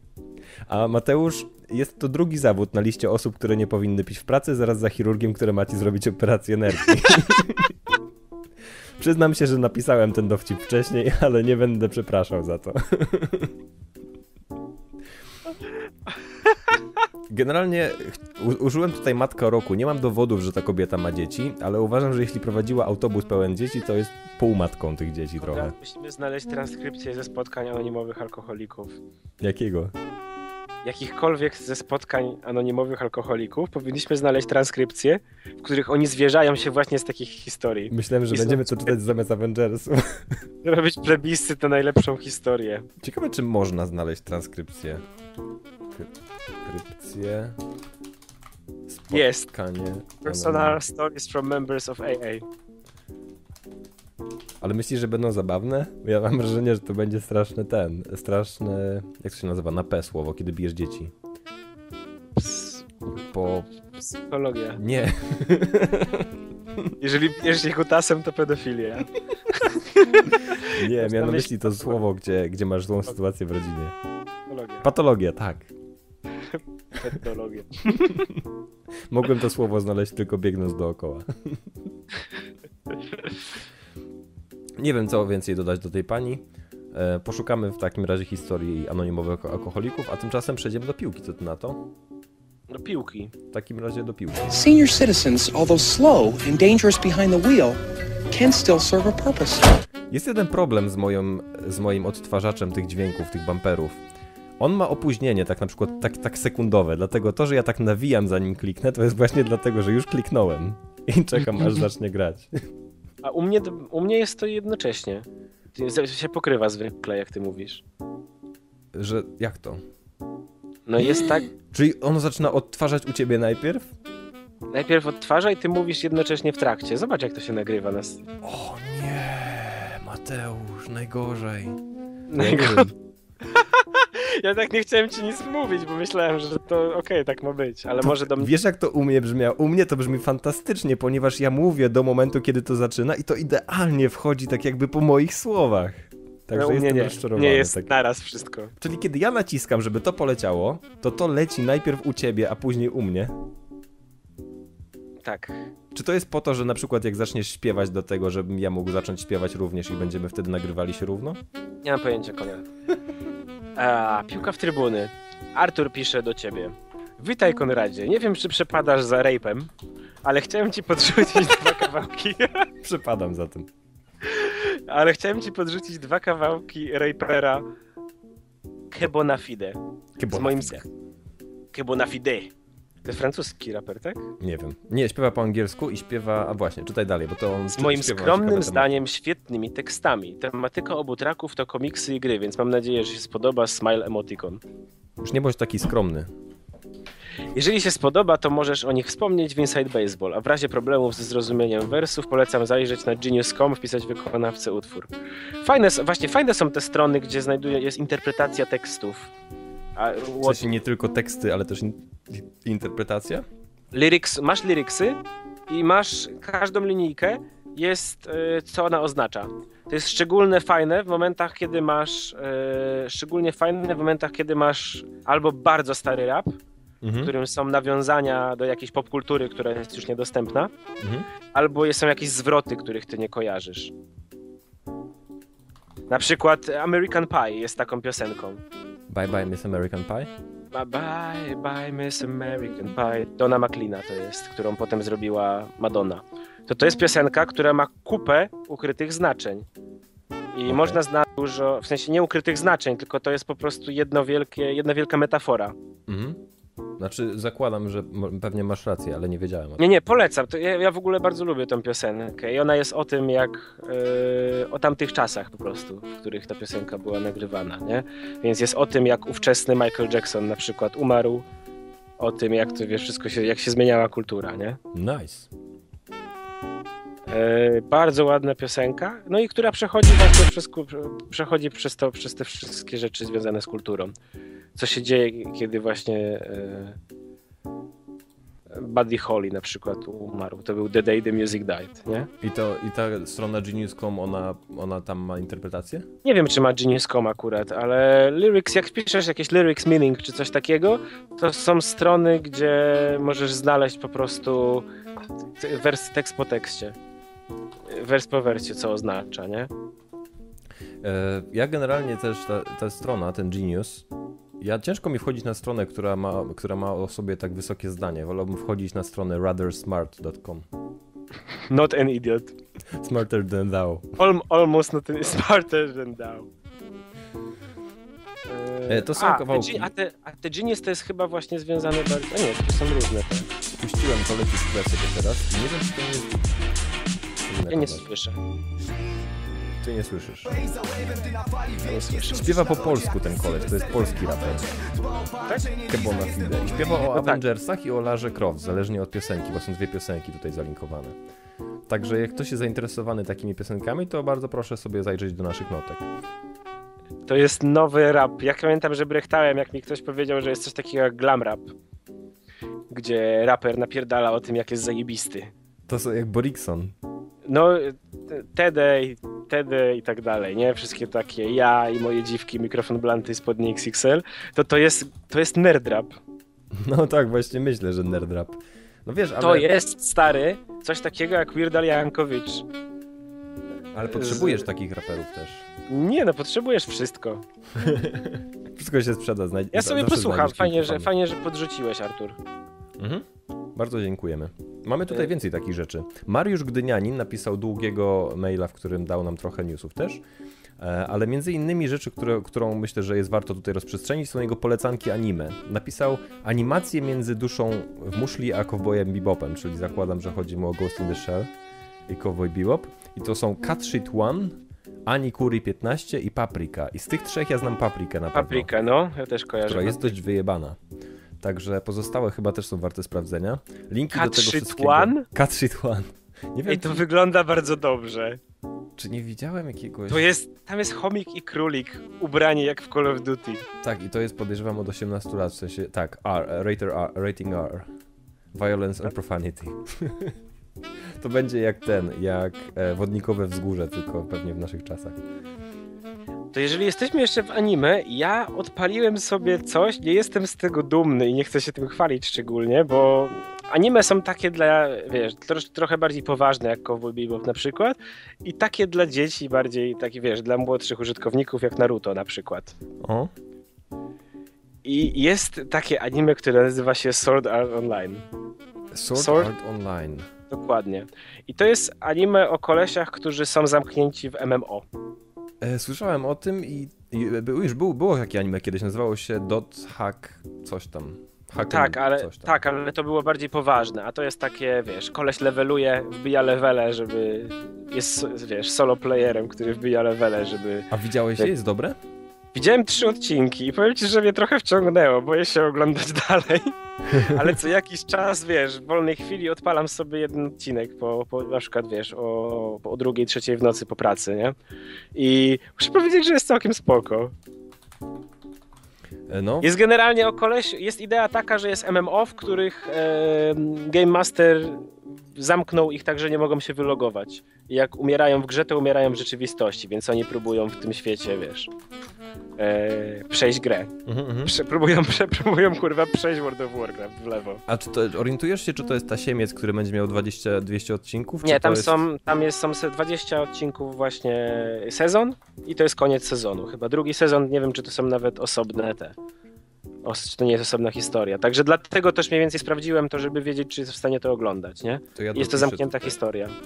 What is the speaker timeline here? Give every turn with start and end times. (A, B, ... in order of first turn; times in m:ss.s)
0:00.7-0:07.7 A
0:09.0-0:13.5 A
0:17.3-0:25.7 A
0:25.4-0:29.0 B
0:29.4-0:29.9 A
0:30.8-0:39.0 B
0:37.9-0:40.4 A
0:40.6-0:42.9 B
0:43.0-0:45.0 A
0:46.6-0:47.6 A
0:48.9-0:50.8 A
0:49.1-0:49.5 B
0:50.2-0:52.4 B
0:54.6-1:01.1 A
1:02.4-1:02.8 B
1:03.0-1:03.7 A
1:03.9-1:04.8 B
1:04.8-1:06.9 A
1:07.0-1:12.0 B
1:10.7-1:13.9 A
1:14.5-1:14.9 B
1:14.8-1:15.7 A
1:16.5-1:18.1 B
1:19.1-1:21.6 A
1:24.8-1:31.9 A
1:32.7-1:33.3 B
1:33.5-1:34.5 A
1:34.5-1:39.8 C
1:40.1-1:44.0 A
1:44.6-1:52.6 A
1:53.2-1:57.8 B
1:58.9-1:59.8 A
2:00.9-2:01.5 B
2:01.0-2:03.9 A
2:04.7-2:08.2 B
2:08.4-2:11.8 A
2:12.3-2:12.9 B
2:12.3-2:12.9 A
2:13.4-2:18.5 B
2:18.0-2:27.9 A
2:26.5-2:28.7 B
2:28.8-2:33.3 A
2:35.2-2:35.6 B
2:35.9-2:41.4 A
2:41.8-2:42.6 B
2:43.8-2:49.7 B
2:50.2-2:52.7 B
2:52.8-2:53.7 A
2:54.2-2:57.6 B
2:58.9-2:59.8 B
3:00.2-3:00.8 A
3:00.3-3:00.8 B
3:01.7-3:02.5 B
3:03.0-3:04.3 B
3:04.4-3:09.0 A
3:07.7-3:14.6 B
3:15.2-3:16.3 A
3:17.5-3:25.1 B
3:25.6-3:29.3 B
3:30.0-3:30.6 B
3:30.4-3:33.4 A
3:33.9-3:46.5 B
3:47.0-3:47.3 A
3:47.2-3:50.7 B
3:51.0-3:51.3 A
3:51.5-3:53.9 B
3:56.1-3:58.6 B
3:59.1-4:00.3 A
4:00.7-4:09.7 B
4:10.5-4:15.7 B
4:10.7-4:11.0 A
4:16.1-4:16.4 A
4:17.0-4:19.8 A
4:19.8-4:31.4 B
4:32.2-4:34.8 B
4:34.9-4:35.5 A
4:37.3-4:44.1 B
4:44.8-4:47.0 B
4:48.7-4:52.3 B
4:52.4-4:56.1 A
4:56.2-5:04.9 B
5:05.6-5:07.0 B
5:07.9-5:09.7 B
5:11.0-5:14.1 A
5:14.6-5:20.7 A
5:21.7-5:22.5 B
5:22.9-5:24.1 A
5:24.2-5:26.5 B
5:28.5-5:33.5 B
5:28.9-5:29.9 A
5:33.7-5:36.4 A
5:37.5-5:38.0 A
5:37.7-5:38.4 B
5:39.8-5:41.1 A
5:41.8-5:42.5 B
5:42.2-5:44.9 A
5:45.4-5:45.8 B
5:45.7-5:51.2 A
5:47.1-5:47.4 B
5:51.9-5:56.0 A
5:57.3-6:01.7 B
6:02.9-6:05.5 B
6:05.9-6:06.9 A
6:07.5-6:16.2 B
6:16.7-6:19.7 A
6:19.4-6:22.6 B
6:23.9-6:25.6 A
6:24.1-6:24.6 B
6:25.9-6:27.4 B
6:27.8-6:31.1 A
6:29.7-6:32.4 B
6:33.0-6:40.2 A
6:40.8-6:51.5 A
6:52.1-6:58.7 A
6:58.3-7:00.1 B
6:59.6-7:00.8 A
7:01.4-7:07.0 A
7:04.1-7:05.2 B
7:06.7-7:08.4 B
7:09.0-7:10.3 A
7:10.1-7:13.6 B
7:13.8-7:17.9 A
7:18.5-7:20.3 A
7:21.2-7:25.2 A
7:26.5-7:42.7 B
7:43.0-7:43.3 A
7:44.8-7:48.2 B
7:48.9-7:50.3 A
7:49.1-7:49.5 B
7:50.5-7:54.8 B
7:55.6-8:02.6 A
8:01.7-8:11.5 B
8:10.9-8:12.0 A
8:12.5-8:24.5 B
8:25.1-8:27.3 B
8:29.3-8:29.7 A
8:29.6-8:41.7 B
8:42.6-8:43.9 B
8:44.0-8:44.5 A
8:44.4-8:47.6 B
8:47.7-8:52.0 A
8:51.4-8:59.1 B
9:00.0-9:06.6 B
9:05.1-9:06.2 A